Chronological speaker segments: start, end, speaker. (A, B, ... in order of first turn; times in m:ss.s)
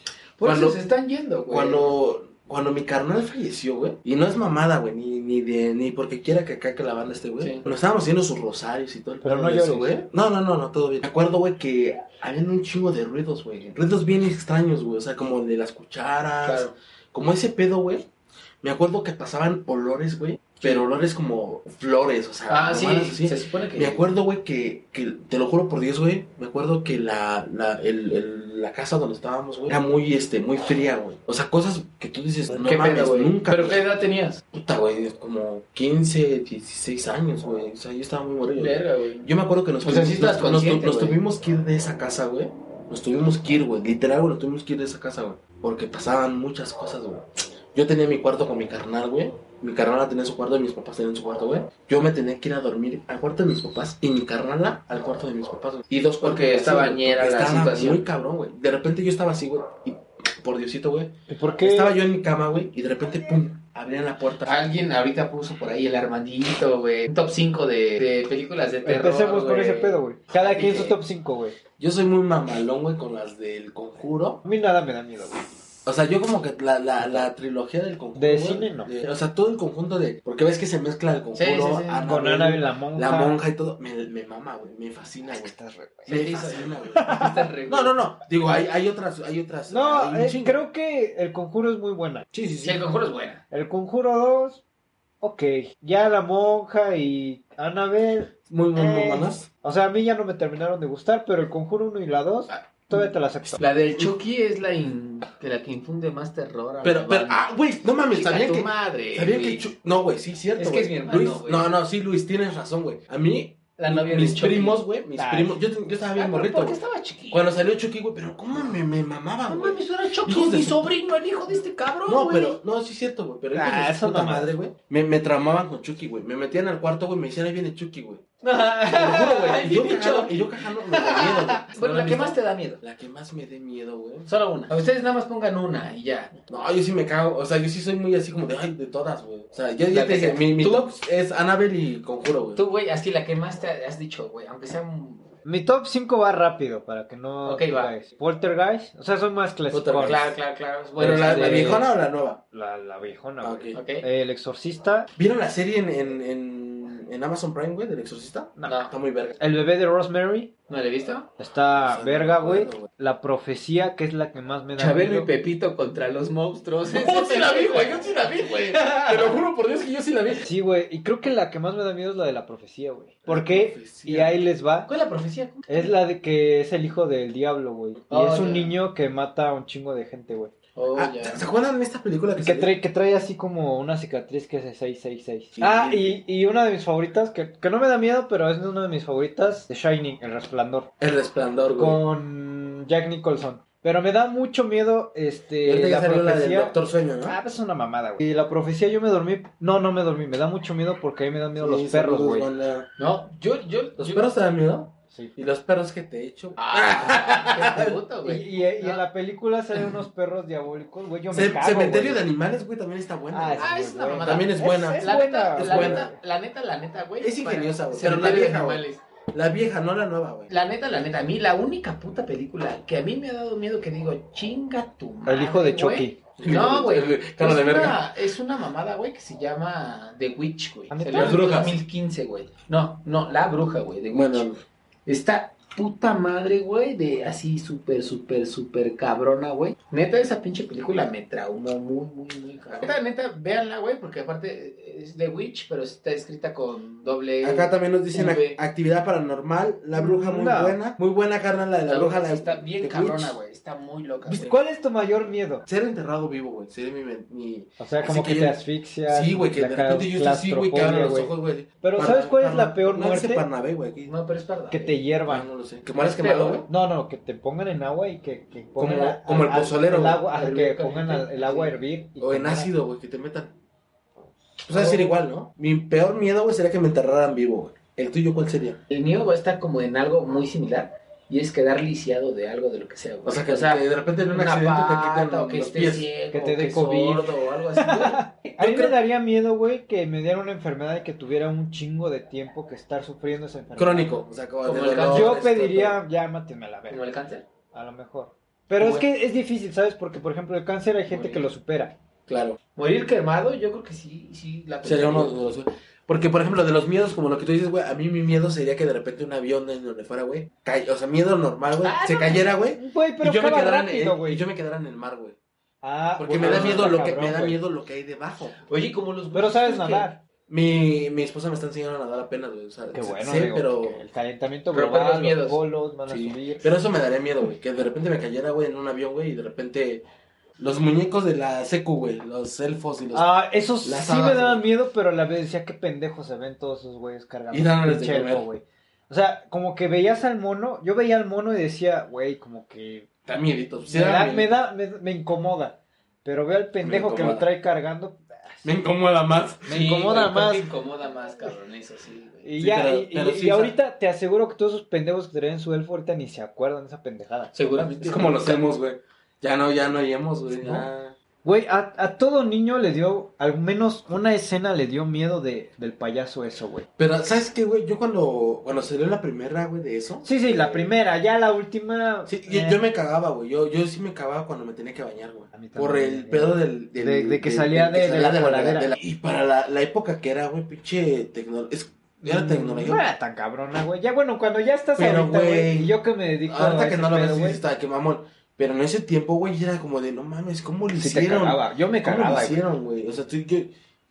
0:00.4-0:01.9 A
0:00.4-0:00.8 B
0:01.5-0:18.1 B
0:07.4-0:07.6 A
0:09.2-0:10.0 C
0:16.4-0:16.7 A
0:18.6-0:33.8 B
0:22.5-0:24.1 A
0:32.5-0:34.4 A
0:34.5-1:04.6 B
0:38.6-0:39.3 A
0:39.8-0:41.2 A
0:55.9-0:58.0 A
1:01.3-1:02.0 C
1:04.4-1:11.0 A
1:08.8-1:11.6 C
1:11.8-1:14.4 B
1:14.4-1:15.5 C
1:15.8-1:25.5 B
1:18.2-1:18.9 C
1:21.3-1:22.1 A
1:22.0-1:23.4 C
1:25.3-1:26.2 C
1:26.1-1:30.6 B
1:26.1-1:28.1 A
1:26.9-1:27.5 C
1:29.7-1:32.2 C
1:32.3-1:32.8 B
1:32.6-1:33.4 A
1:33.5-1:34.6 C
1:35.2-1:43.6 C
1:38.5-1:39.5 B
1:43.6-1:47.4 A
1:46.8-1:56.8 B
1:48.1-1:49.7 A
1:50.6-1:51.7 A
1:53.8-1:54.8 A
1:55.1-1:55.6 C
1:56.2-1:57.5 A
1:57.3-2:00.9 B
1:59.5-2:02.6 A
2:02.0-2:08.2 B
2:03.5-2:04.5 C
2:08.4-2:12.8 A
2:08.9-2:14.3 B
2:14.3-2:16.4 A
2:16.5-2:22.6 B
2:19.9-2:20.9 A
2:22.5-2:25.3 A
2:25.4-2:30.2 C
2:27.4-2:27.9 A
2:29.7-2:30.4 B
2:30.0-2:31.9 A
2:31.0-2:31.9 C
2:31.0-2:32.4 B
2:32.5-2:35.1 C
2:33.4-2:33.8 B
2:33.7-2:34.0 A
2:35.2-2:39.4 B
2:38.6-2:40.5 C
2:38.6-2:38.9 A
2:40.7-2:41.3 A
2:41.4-2:45.3 C
2:41.8-2:42.9 B
2:44.8-2:49.4 A
2:46.8-2:50.4 B
2:50.4-2:54.9 C
2:53.2-2:54.3 B
2:54.8-2:56.0 A
2:55.7-3:00.5 C
2:58.1-2:58.7 A
3:00.8-3:01.4 A
3:00.9-3:02.7 B
3:02.4-3:10.9 C
3:05.6-3:06.2 B
3:11.0-3:12.0 B
3:11.7-3:22.5 C
3:15.6-3:17.4 B
3:21.6-3:22.9 B
3:23.0-3:24.3 A
3:24.0-3:28.0 B
3:26.6-3:29.0 A
3:28.2-3:32.2 C
3:31.3-3:36.1 B
3:33.3-3:36.2 C
3:33.6-3:39.0 A
3:37.2-3:40.5 B
3:40.5-3:54.5 A
3:45.2-3:46.2 C
3:46.4-3:48.0 B
3:50.9-3:51.4 C
3:51.1-3:51.8 B
3:54.1-3:54.6 B
3:55.0-4:08.6 A
4:07.4-4:13.4 B
4:09.9-4:10.8 C
4:11.9-4:14.6 A
4:14.3-4:15.6 C
4:15.6-4:24.1 B
4:17.8-4:23.4 C
4:24.0-4:24.9 A
4:24.7-4:25.5 C
4:25.3-4:26.7 B
4:26.0-4:26.6 A
4:26.7-4:32.7 C
4:28.8-4:30.3 B
4:30.3-4:31.8 A
4:32.2-4:33.5 B
4:34.6-4:38.8 B
4:34.7-4:35.1 A
4:38.9-4:47.2 A
4:43.2-4:46.1 B
4:46.3-4:54.2 C
4:47.0-4:48.9 B
4:53.8-4:56.0 B
4:54.6-4:55.4 A
4:55.1-4:57.0 C
4:56.9-4:57.4 A
4:57.7-5:02.0 C
4:58.8-4:59.0 B
5:02.3-5:02.6 B
5:02.5-5:05.5 A
5:04.8-5:15.4 B
5:11.8-5:12.5 A
5:12.7-5:14.4 C
5:15.8-5:17.6 C
5:16.2-5:18.6 B
5:16.4-5:16.9 A
5:18.6-5:20.1 A
5:19.3-5:20.2 C
5:20.5-5:24.0 B
5:22.9-5:26.7 C
5:24.7-5:26.4 A
5:26.6-5:30.0 B
5:30.6-5:33.3 B
5:33.1-5:43.1 C
5:33.8-5:34.6 B
5:37.5-5:38.4 B
5:43.3-5:44.5 B
5:43.8-5:48.7 C
5:46.8-5:47.4 B
5:48.6-5:50.4 B
5:49.7-5:50.6 C
5:49.7-5:52.5 A
5:52.4-5:57.5 C
5:52.6-5:53.7 B
5:57.5-5:58.6 A
5:58.0-6:01.1 B
6:00.5-6:00.9 C
6:01.4-6:06.9 C
6:07.0-6:10.9 B
6:10.2-6:12.8 C
6:12.3-6:23.0 B
6:15.5-6:18.9 C
6:22.2-6:27.6 C
6:25.0-6:25.9 B
6:26.4-6:33.7 B
6:30.9-6:32.6 C